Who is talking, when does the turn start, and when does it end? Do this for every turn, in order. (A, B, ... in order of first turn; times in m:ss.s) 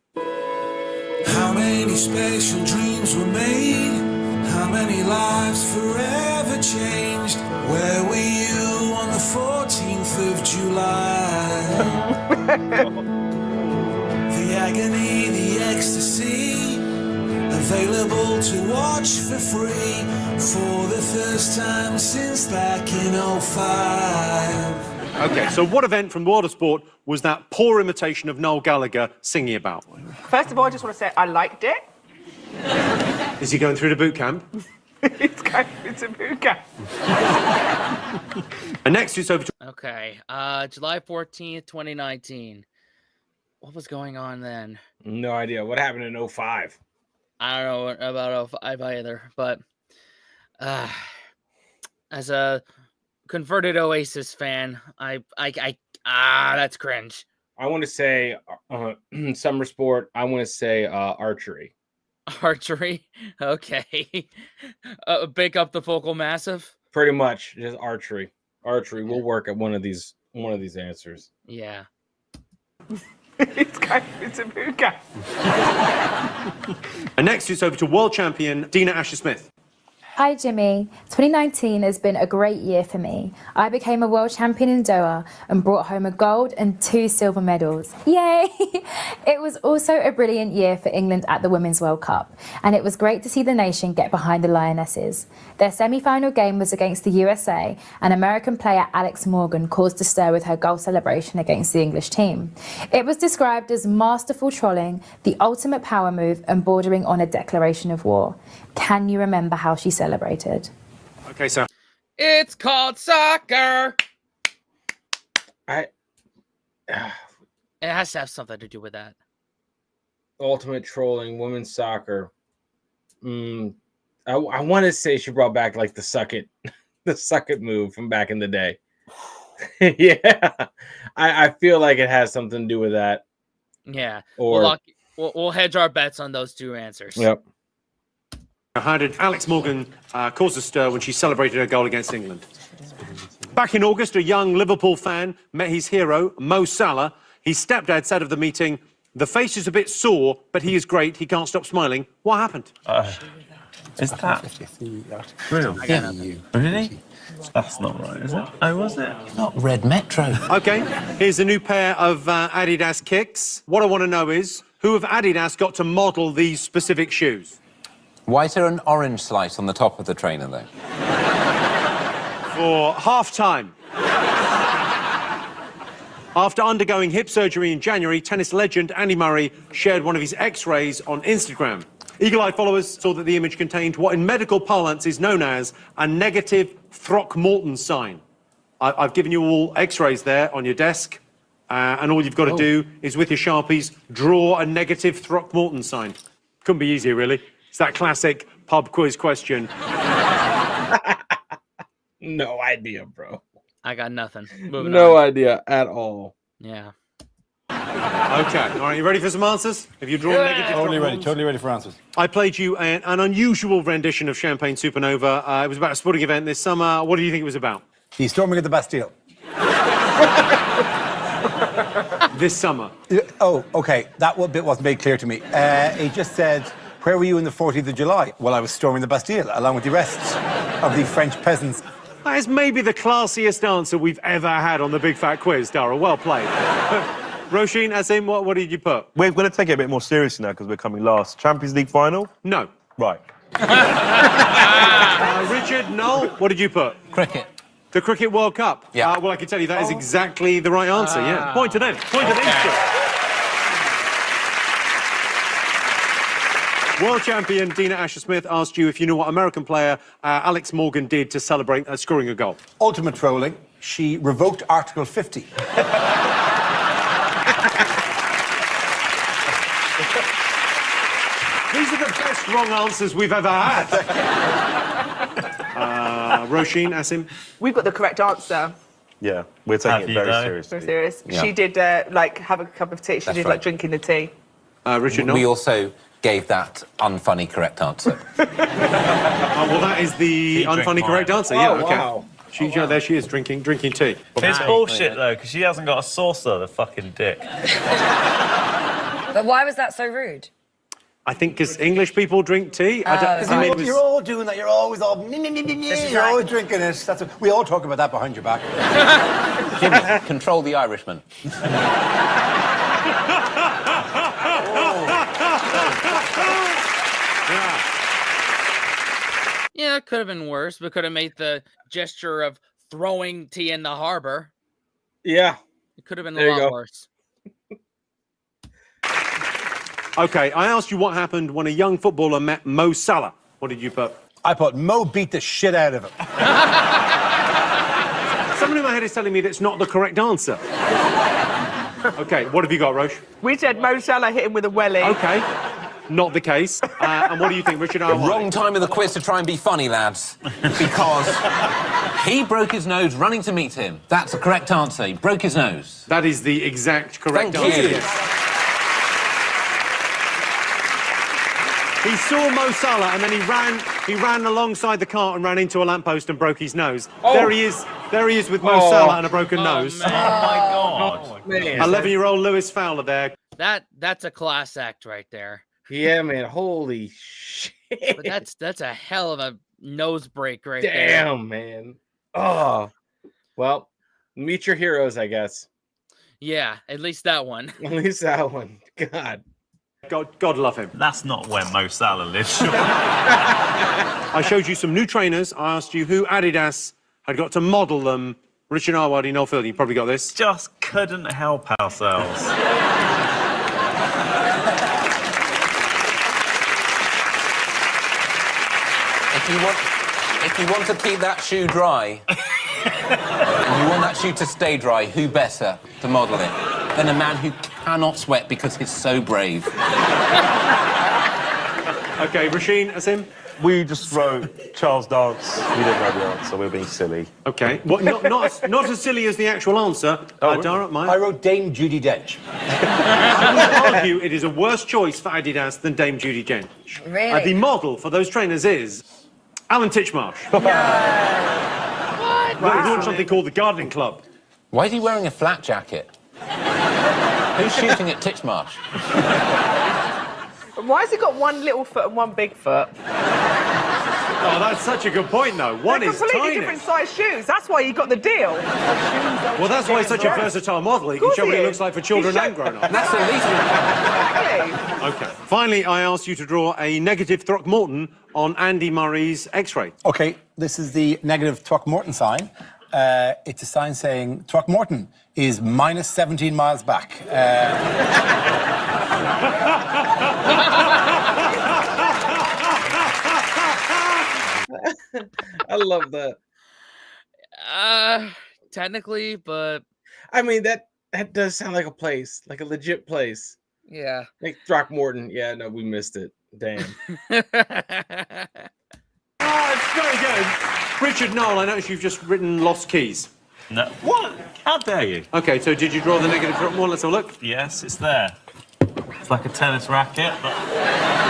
0:01.2-0:12.0 A
0:12.3-0:12.8 B
0:14.3-0:16.9 A
0:17.5-0:24.8 A
0:25.2-0:29.8 C
0:30.3-0:31.8 B
0:33.4-0:34.5 C
0:35.0-0:36.6 B
0:38.8-0:39.5 C
0:39.6-0:42.6 D
0:43.6-0:44.8 D
0:45.0-0:46.8 E
0:47.4-0:49.6 D
0:50.6-0:51.1 D
0:52.1-0:52.6 D
0:53.3-0:57.2 D
0:57.6-1:01.7 E
1:02.3-1:04.3 D
1:04.9-1:06.8 D
1:06.9-1:11.3 E
1:11.5-1:11.9 D
1:13.4-1:15.0 B
1:17.2-1:19.5 C
1:20.2-1:50.7 F
1:51.3-1:51.7 C
1:52.2-1:54.0 D
1:56.9-1:57.2 E
1:57.8-1:59.2 D
2:00.4-2:02.3 E
2:03.2-2:06.5 E
2:07.1-2:08.8 E
2:09.6-2:13.2 E
2:13.9-2:17.3 D
2:14.4-2:14.8 E
2:17.2-2:17.4 E
2:18.8-2:22.5 C
2:23.5-2:32.7 C
2:32.9-2:33.2 G
2:34.0-2:34.5 G
2:35.5-2:37.0 G
2:35.8-2:36.3 H
2:37.5-2:39.3 G
2:39.3-2:40.4 H
2:40.5-2:47.6 C
2:48.3-2:50.7 H
2:52.5-2:53.7 C
2:56.4-3:08.2 C
3:08.8-3:19.7 C
3:20.9-3:21.4 E
3:22.2-3:23.4 E
3:23.8-3:25.2 D
3:24.6-3:26.4 E
3:26.6-3:26.9 D
3:28.3-3:31.4 C
3:30.3-3:30.9 D
3:30.7-3:32.0 I
3:32.2-3:37.8 C
3:38.2-3:39.1 I
3:42.3-3:42.9 C
3:43.1-3:51.8 I
3:52.2-3:59.1 C
3:59.2-4:02.3 J
4:02.4-4:02.8 C
4:03.0-4:03.2 J
4:03.7-4:05.2 D
4:05.0-4:07.0 C
4:07.1-4:07.5 H
4:07.9-4:12.8 C
4:11.0-4:12.8 D
4:17.0-4:22.6 C
4:22.8-4:25.5 I
4:31.7-4:34.0 C
4:35.7-4:37.3 C
4:37.6-4:38.7 B
4:39.2-4:41.0 J
4:39.8-4:40.6 G
4:40.7-4:44.3 B
4:41.3-4:41.6 H
4:43.2-4:43.7 H
4:44.8-4:45.5 C
4:45.1-4:48.2 H
4:49.5-4:54.7 C
4:50.5-4:51.4 G
4:51.5-4:52.3 E
4:54.4-4:57.5 G
4:54.4-4:54.8 D
4:54.7-4:55.2 H
4:59.3-5:00.5 K
5:01.3-5:04.0 C
5:03.0-5:03.8 K
5:03.4-5:08.7 I
5:05.9-5:06.4 K
5:09.8-5:11.2 H
5:17.5-5:17.8 C
5:19.7-5:24.5 D
5:25.2-5:25.6 E
5:26.0-5:27.1 D
5:26.4-5:26.8 E
5:30.2-5:34.2 C
5:34.4-5:36.1 I
5:38.6-5:40.6 C
5:42.2-5:43.2 C
5:43.4-5:45.2 B
5:45.0-5:45.5 C
5:46.1-5:48.5 C
5:48.1-5:51.4 H
5:52.2-5:56.0 H
5:56.1-5:58.1 C
5:57.3-5:58.1 H
6:02.0-6:10.2 C
6:07.2-6:07.5 E
6:08.6-6:09.2 E
6:09.6-6:10.7 D
6:10.0-6:11.9 G
6:10.1-6:11.1 K
6:10.9-6:12.0 E
6:11.8-6:13.4 C
6:13.6-6:15.7 D
6:15.9-6:18.4 E
6:18.1-6:21.3 D
6:20.8-6:22.9 E
6:23.6-6:25.7 E
6:26.4-6:27.8 D
6:27.8-6:29.4 E
6:30.1-6:30.9 C
6:30.9-6:32.9 G
6:34.3-6:40.3 C
6:40.3-6:42.5 G
6:49.3-6:52.2 H
6:53.5-6:59.7 H
7:02.2-7:03.3 C
7:03.6-7:07.3 J
7:07.5-7:11.2 C
7:10.4-7:10.8 J
7:11.0-7:12.4 I
7:13.3-7:19.0 C
7:17.0-7:17.6 K
7:19.7-7:20.5 C
7:20.5-7:21.1 J
7:20.6-7:21.7 K
7:22.2-7:23.3 D
7:22.6-7:24.2 C
7:22.6-7:23.2 B
7:24.7-7:26.1 H
7:27.6-7:28.8 H
7:30.8-7:32.9 B
7:34.4-7:36.8 C
7:35.9-7:38.7 B
7:39.6-7:43.9 C
7:39.9-7:40.4 I
7:41.2-7:43.0 B
7:42.9-7:43.9 H
7:44.0-7:44.8 B
7:45.0-7:49.9 C
7:50.0-7:57.9 I
8:04.7-8:06.4 E
8:07.6-8:09.8 D
8:10.3-8:13.6 E
8:13.9-8:14.3 D
8:14.4-8:17.0 E
8:17.1-8:18.7 D
8:19.4-8:23.3 C
8:23.7-8:25.3 G
8:25.3-8:27.4 C
8:27.4-8:28.4 G
8:29.2-8:30.6 G